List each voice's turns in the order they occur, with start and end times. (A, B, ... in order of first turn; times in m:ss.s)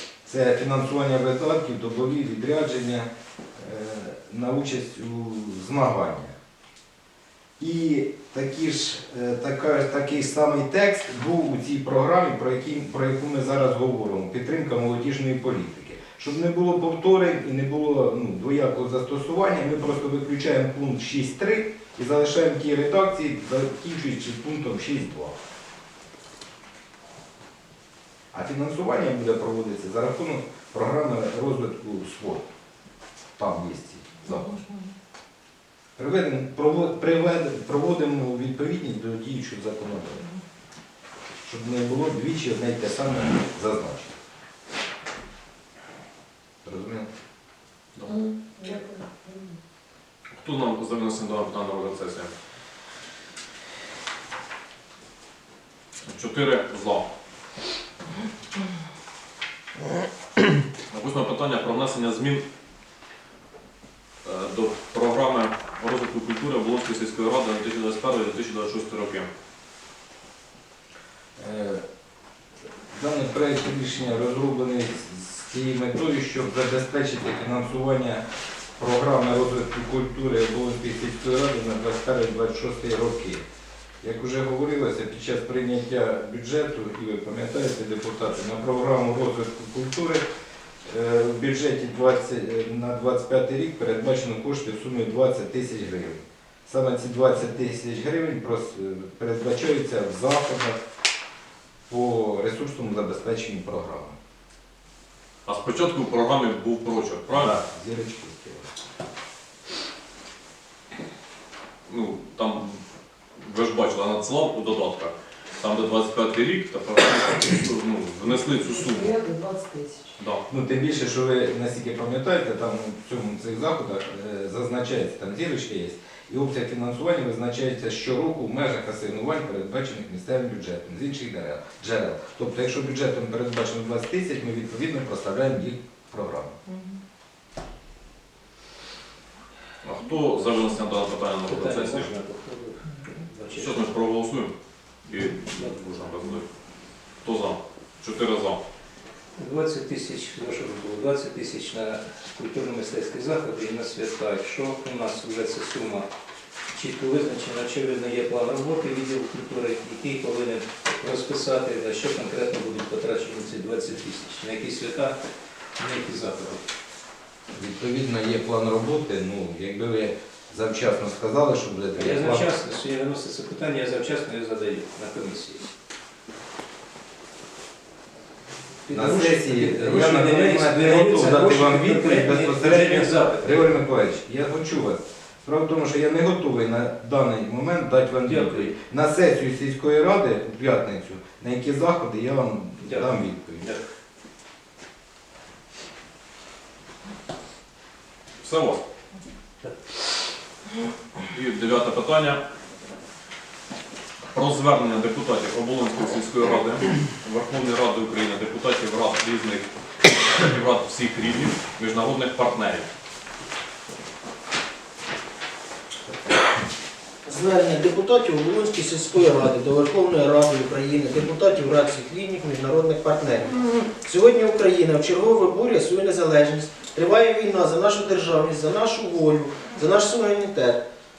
0:00.2-0:06.4 A
0:07.6-0:25.4 A
0:28.3-0:32.4 A
0:33.4-0:34.6 A
0:36.0-0:40.2 A
0:41.4-0:44.1 A
0:46.6-0:47.1 A
0:48.0-0:49.5 B
0:50.4-0:52.3 C
0:56.1-0:57.1 C
1:00.9-1:02.4 C
1:04.2-1:09.3 C
1:11.4-1:11.8 A
1:12.9-1:18.2 A
1:18.8-1:23.4 A
1:24.0-1:30.2 A
1:30.8-1:40.8 A
1:41.9-1:44.2 A
1:45.4-1:47.6 C
1:47.3-1:48.7 A
1:51.9-1:52.8 C
1:53.4-1:59.2 C
1:58.2-2:00.2 B
2:00.5-2:16.6 A
2:19.8-2:22.1 C
2:21.4-2:23.9 D
2:23.5-2:24.5 C
2:25.1-2:26.4 C
2:25.3-2:25.8 D
2:27.2-2:28.6 C
2:29.4-2:36.1 D
2:36.7-2:45.2 D
2:45.8-2:46.6 D
2:47.5-2:52.5 A
2:52.0-2:55.6 D
2:58.8-3:03.7 D
2:58.9-3:13.7 A
3:08.2-3:08.7 D
3:12.8-3:13.8 D
3:18.4-3:18.8 C
3:21.3-3:22.4 C
3:24.3-3:32.9 C
3:37.2-3:50.8 E